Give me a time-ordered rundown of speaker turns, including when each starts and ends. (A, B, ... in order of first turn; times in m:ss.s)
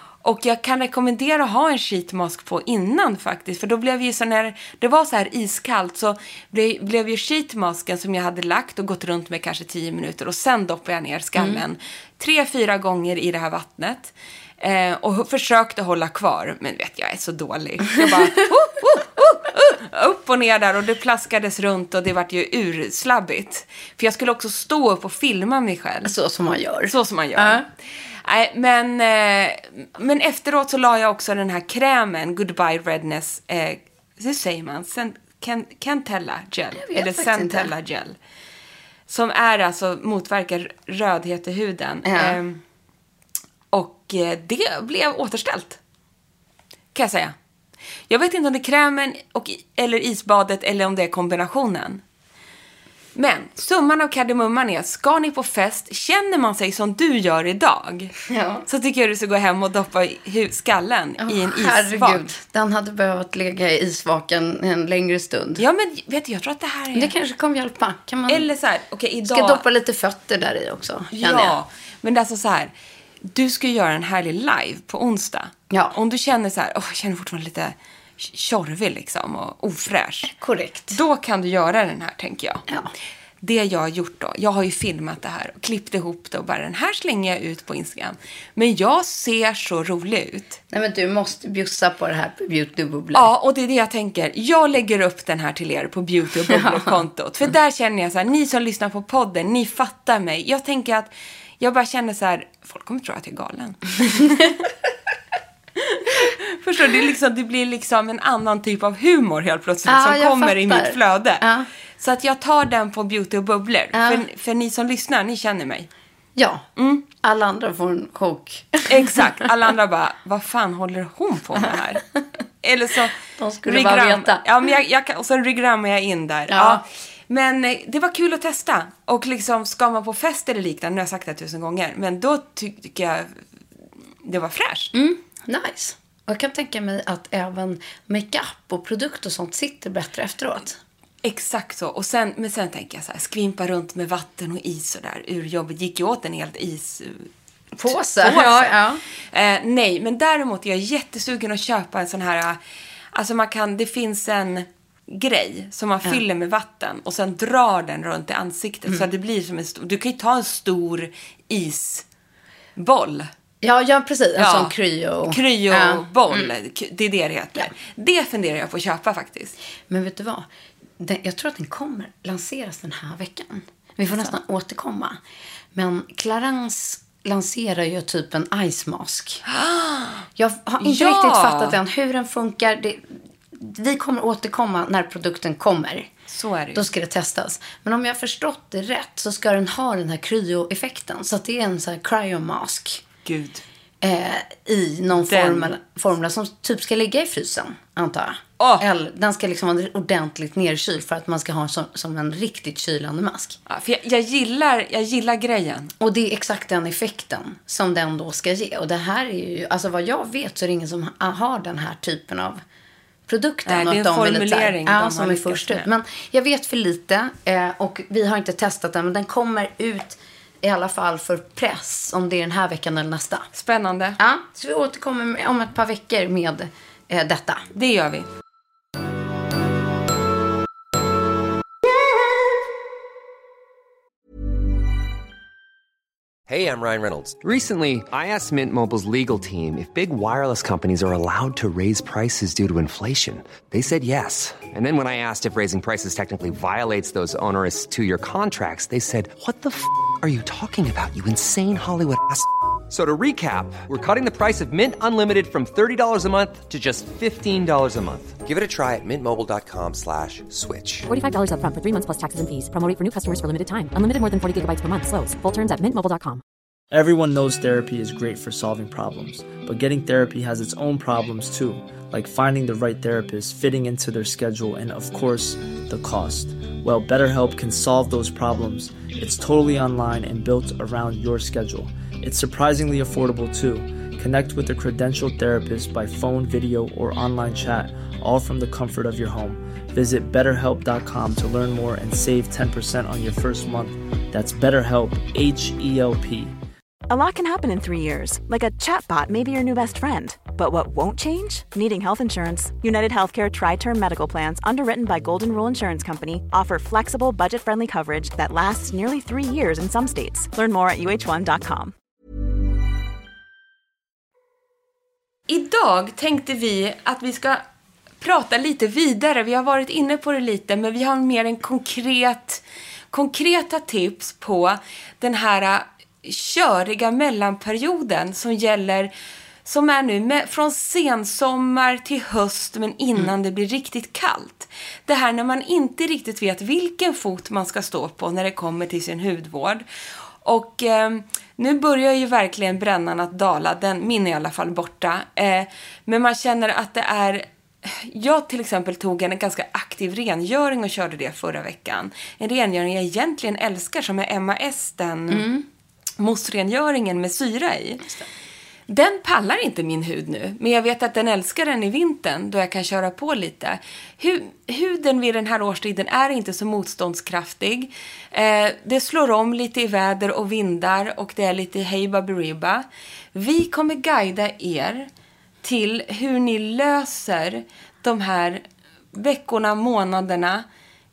0:00.2-0:26.1 A
0:18.0-0:18.5 B
0:26.0-0:27.6 B
0:26.9-0:27.6 A
0:28.2-0:38.2 A
0:36.8-0:37.7 B
0:39.1-0:42.6 A
0:42.0-0:42.4 B
0:43.7-0:45.8 A
0:46.9-0:47.3 A
0:48.1-0:52.0 A
0:53.2-0:58.2 A
0:58.3-0:58.6 B
0:58.7-1:02.2 A
1:01.2-1:05.6 B
1:05.6-1:07.1 A
1:06.9-1:08.5 B
1:08.3-1:09.6 A
1:09.2-1:11.6 B
1:11.1-1:12.7 A
1:13.2-1:20.3 A
1:15.7-1:16.0 B
1:20.3-1:21.0 B
1:20.9-1:22.6 A
1:23.4-1:30.6 A
1:30.7-1:33.3 B
1:33.1-1:44.5 A
1:36.5-1:36.8 B
1:45.8-1:51.4 A
1:49.9-1:51.7 B
1:52.0-1:55.9 A
1:53.9-1:54.2 B
1:56.4-1:59.2 B
1:56.8-1:57.0 A
1:58.9-2:02.0 A
2:02.6-2:13.4 A
2:03.4-2:04.5 B
2:06.5-2:06.8 B
2:14.2-2:14.9 A
2:14.9-2:20.8 B
2:21.2-2:27.3 A
2:27.8-2:29.0 B
2:27.9-2:28.8 A
2:29.3-2:32.6 A
2:33.1-2:42.0 A
2:42.8-2:43.3 A
2:43.6-2:46.5 B
2:44.4-2:44.7 A
2:45.3-2:49.6 A
2:49.9-2:50.5 B
2:51.0-2:55.2 B
2:55.7-2:59.4 B
2:59.5-3:00.3 A
3:00.4-3:06.1 B
3:00.8-3:01.8 A
3:06.3-3:06.9 A
3:06.7-3:13.0 B
3:13.2-3:13.6 A
3:14.0-3:23.6 B
3:15.1-3:15.7 A
3:18.6-3:18.9 A
3:23.7-3:25.9 A
3:26.0-3:32.6 B
3:33.3-3:43.5 B
3:33.6-3:35.9 A
3:43.5-3:44.2 A
3:44.2-3:47.6 B
3:47.7-3:48.3 A
3:56.5-4:21.1 C
4:21.1-4:26.4 D
4:26.9-4:56.5 E
4:57.1-5:11.9 F
5:15.5-5:17.6 A
5:18.2-5:29.1 A
5:29.6-5:39.8 A
5:40.4-5:55.5 A
5:55.3-5:55.6 B
5:56.2-5:58.0 A
5:58.9-6:15.1 A
6:15.6-6:20.6 A